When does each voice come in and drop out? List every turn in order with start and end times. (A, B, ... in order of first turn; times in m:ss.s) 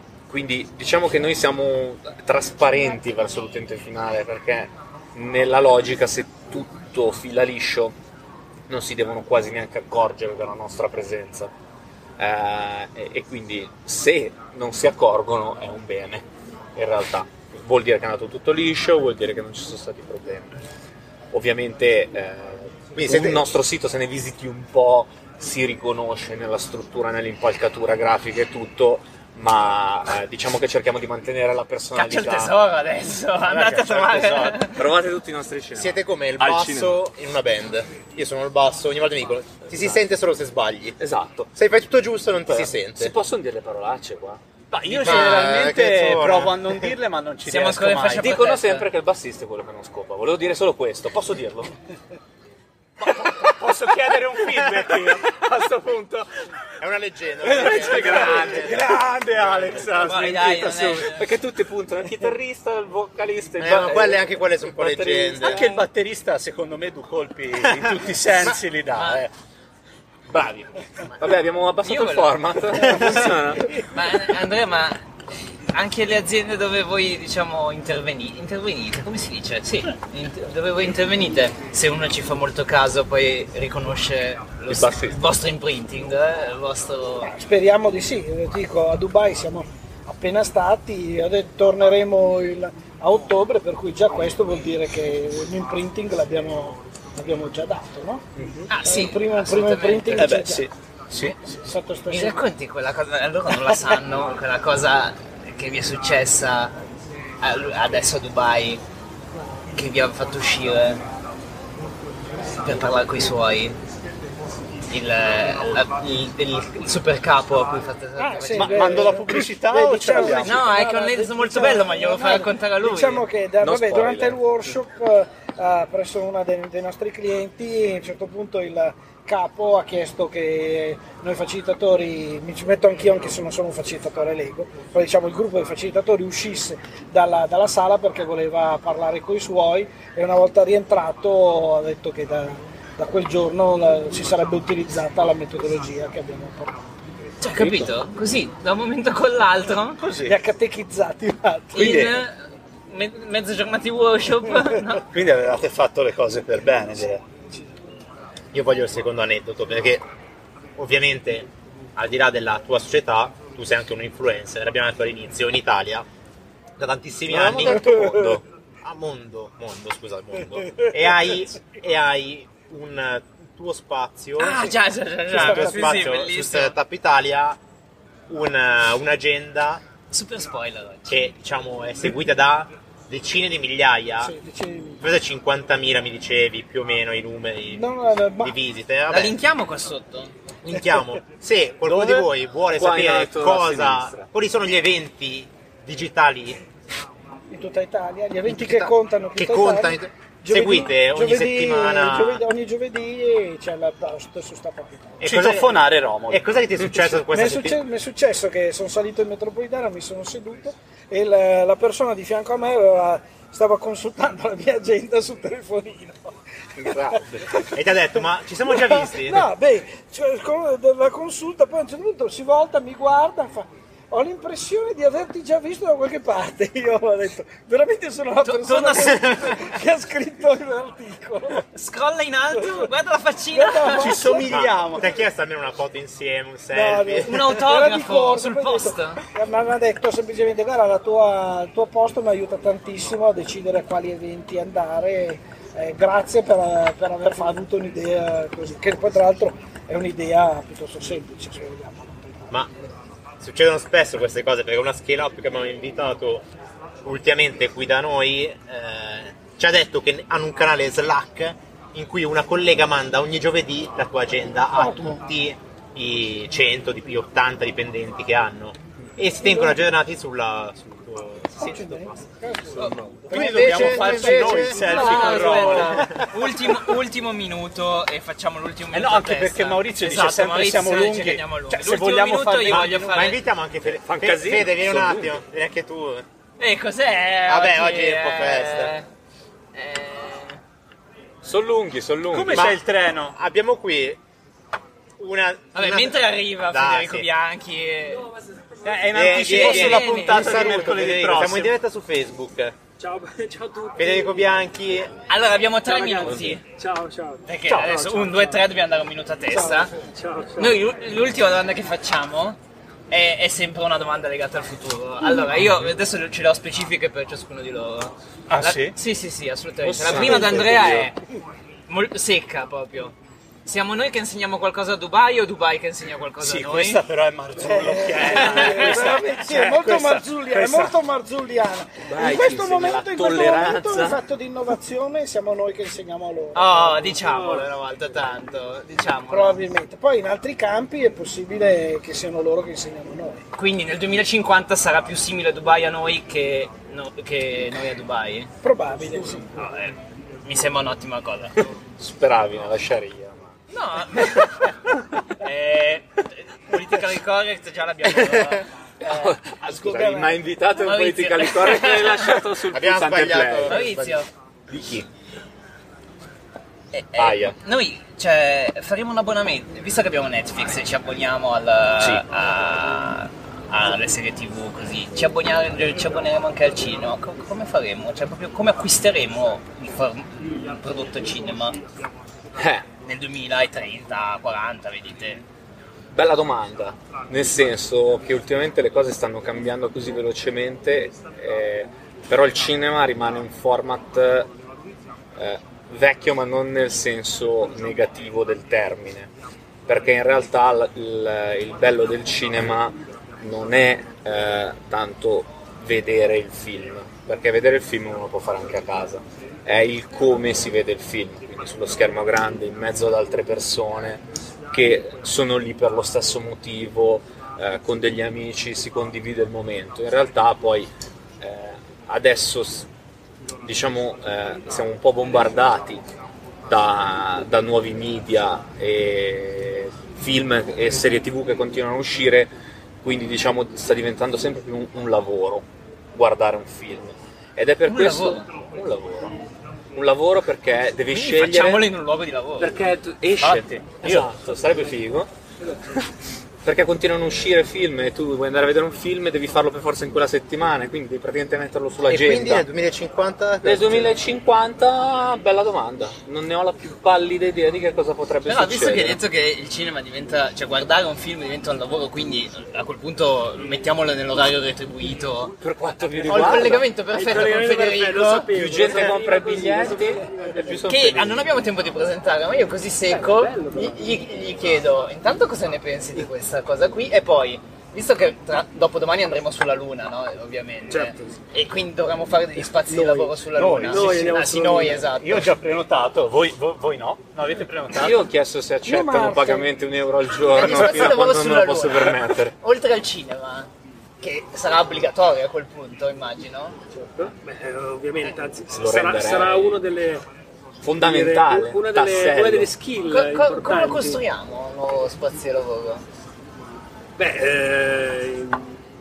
0:00.3-0:08.0 A
0:08.7-0:11.5 A
0:12.2-0:20.5 A
0:21.3-0:32.5 A
0:23.0-0:23.5 B
0:32.0-0:34.8 C
0:33.5-0:34.6 B
0:34.8-0:37.0 A
0:35.7-0:41.0 B
0:41.0-0:41.5 A
0:41.6-0:43.1 B
0:42.5-0:45.5 A
0:44.7-0:48.3 D
0:45.0-0:46.9 B
0:47.5-0:48.9 C
0:48.1-0:51.7 A
0:53.0-0:56.3 D
0:54.6-0:55.0 B
0:56.8-0:58.9 B
0:57.4-1:01.1 D
0:57.5-0:58.7 A
1:00.0-1:01.3 C
1:01.1-1:05.8 A
1:03.6-1:05.6 B
1:05.4-1:09.3 D
1:09.0-1:09.2 C
1:10.3-1:13.7 A
1:11.8-1:13.0 C
1:13.7-1:15.0 C
1:15.7-1:27.3 C
1:24.7-1:25.2 A
1:27.2-1:40.7 E
1:38.7-1:40.3 C
1:40.1-1:41.4 D
1:41.6-1:42.4 E
1:42.1-1:46.8 C
1:47.4-1:48.8 C
1:49.8-1:51.0 C
1:52.6-1:53.8 C
1:54.9-1:59.2 C
1:58.2-2:26.8 E
1:58.5-2:00.7 D
2:00.3-2:03.3 C
2:03.6-2:04.5 A
2:27.4-2:30.0 C
2:27.6-2:27.9 D
2:30.0-2:30.4 D
2:30.3-2:32.0 E
2:31.8-2:35.1 C
2:31.8-2:32.2 D
2:35.1-2:37.2 D
2:38.5-2:40.0 B
2:40.8-2:46.1 B
2:46.8-2:54.8 B
2:47.3-2:47.9 A
2:47.7-2:48.3 E
2:54.4-2:56.8 C
2:55.3-2:57.6 B
2:55.5-2:56.0 E
2:58.3-2:59.8 B
3:00.1-3:01.3 C
3:01.1-3:04.3 B
3:04.2-3:05.0 E
3:05.0-3:07.8 B
3:07.7-3:08.6 E
3:08.4-3:09.4 B
3:09.1-3:10.3 C
3:10.6-3:16.6 B
3:11.8-3:14.3 A
3:17.5-3:25.2 E
3:18.5-3:22.4 B
3:25.2-3:27.8 B
3:25.2-3:27.2 D
3:27.3-3:51.7 E
3:36.8-3:37.5 A
3:37.7-3:39.5 B
3:48.4-3:49.6 C
3:51.7-3:54.2 C
3:52.5-3:52.9 E
3:53.5-3:55.0 E
3:53.9-3:55.1 D
3:54.5-3:57.6 B
3:56.7-4:12.5 E
3:57.2-3:59.2 C
4:13.4-4:16.5 B
4:17.0-4:32.2 B
4:24.8-4:25.2 E
4:29.4-4:29.9 E
4:31.6-4:34.9 E
4:32.8-4:43.4 C
4:33.3-4:35.9 A
4:33.3-4:36.2 B
4:33.9-4:36.2 D
4:38.9-4:43.3 D
4:42.7-4:46.3 B
4:43.8-4:45.4 A
4:46.6-4:49.1 C
4:47.5-4:48.9 B
4:49.7-4:50.6 C
4:51.4-4:52.7 A
4:52.3-4:53.4 D
4:52.5-4:54.2 B
4:55.2-4:57.3 B
4:55.7-4:58.3 C
4:58.8-5:01.8 D
4:59.1-5:02.8 B
4:59.4-5:00.7 C
5:03.0-5:04.4 F
5:04.0-5:05.1 B
5:05.3-5:06.6 C
5:05.8-5:08.6 F
5:06.3-5:06.5 A
5:07.5-5:09.9 C
5:09.5-5:09.9 E
5:10.2-5:10.8 F
5:10.6-5:12.6 C
5:13.1-5:21.2 C
5:18.5-5:19.0 D
5:19.8-5:21.1 A
5:21.9-5:23.1 C
5:23.6-5:27.0 C
5:26.4-5:31.0 D
5:27.6-5:37.0 E
5:28.3-5:28.9 C
5:32.0-5:34.2 A
5:36.5-5:39.6 C
5:37.0-5:37.7 F
5:39.3-5:43.4 E
5:43.6-5:48.5 C
5:48.6-5:49.5 E
5:49.4-5:51.6 C
5:52.0-5:53.5 A
5:53.7-5:54.7 C
5:55.4-5:58.7 C
5:59.1-6:03.9 A
5:59.1-6:00.4 E
6:00.8-6:02.4 C
6:02.7-6:04.2 B
6:03.7-6:04.3 C
6:04.7-6:05.1 A
6:06.9-6:21.8 C
6:07.2-6:07.6 A
6:22.6-6:22.9 A
6:23.0-6:25.4 C
6:26.1-6:34.5 A
6:35.4-6:39.3 A
6:39.9-7:02.9 A
7:03.6-7:06.0 A
7:06.7-7:19.4 A
7:17.9-7:18.5 C
7:19.9-7:21.9 A
7:21.1-7:22.8 C
7:22.6-7:23.5 F
7:23.2-7:25.3 A
7:23.4-7:24.3 D
7:26.6-7:32.7 A
7:32.1-7:34.2 B
7:33.6-7:39.2 A
7:38.5-7:45.5 C
7:45.6-7:46.9 A
7:46.3-7:48.5 C
7:46.3-7:50.9 F
7:48.5-7:51.5 A
7:50.9-8:05.5 C
7:53.1-7:54.2 F
8:00.9-8:01.4 F
8:02.9-8:05.0 F
8:03.5-8:04.4 D
8:05.1-8:08.2 D
8:08.0-8:12.6 A
8:08.8-8:09.7 E
8:10.5-8:13.7 C
8:14.2-8:16.8 C
8:16.9-8:20.3 F
8:18.7-8:19.8 A
8:20.8-8:22.7 A
8:21.0-8:24.2 F
8:23.1-8:26.0 C
8:27.2-8:28.8 F